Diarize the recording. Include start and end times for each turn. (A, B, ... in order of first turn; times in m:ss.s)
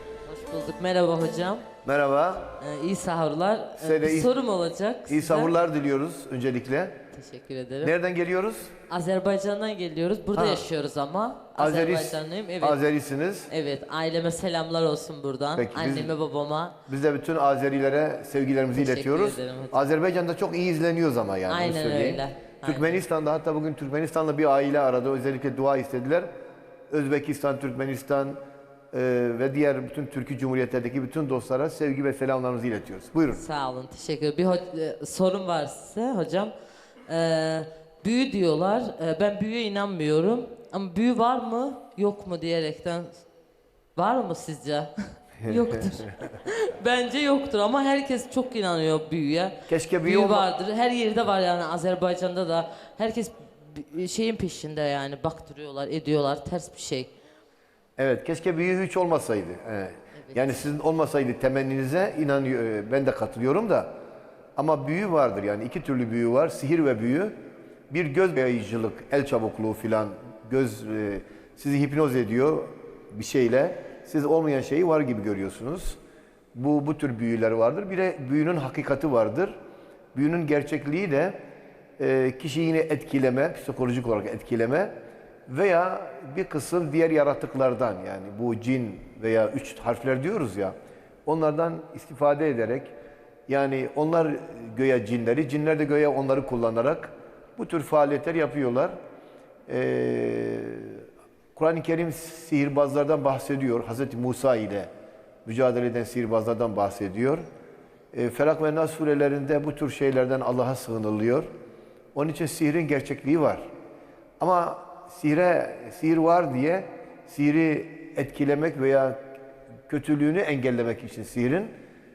0:00.2-0:01.6 A
0:01.8-0:02.5 B
0:02.6-0:05.6 A
0:03.8-0:04.3 B
0:05.1-0:07.0 B
0:07.1-0:07.9 A
0:07.8-0:08.7 B
0:08.9-0:12.8 A
0:10.3-0:10.6 B
0:11.6-0:13.5 B
0:13.5-0:16.8 A
0:15.6-0:16.1 B
0:16.9-0:26.3 B
0:18.7-0:19.9 A
0:21.5-0:23.0 A
0:26.9-0:28.4 B
0:28.9-0:33.4 B
0:33.3-0:36.5 A
0:37.1-0:43.2 A
0:44.0-0:57.1 A
0:45.4-0:46.1 B
0:49.7-0:50.5 B
0:58.0-1:03.9 B
1:00.3-1:00.6 A
1:04.6-1:07.3 B
1:07.9-1:16.0 B
1:16.5-1:19.6 B
1:20.1-1:21.4 B
1:22.0-1:24.9 B
1:25.5-1:30.7 B
1:31.2-1:32.9 B
1:33.5-1:38.9 B
1:39.7-1:41.0 B
1:41.6-1:44.9 B
1:45.4-1:47.4 B
1:48.1-1:51.5 B
1:52.1-1:53.6 B
1:54.4-1:59.2 B
1:59.9-2:01.7 B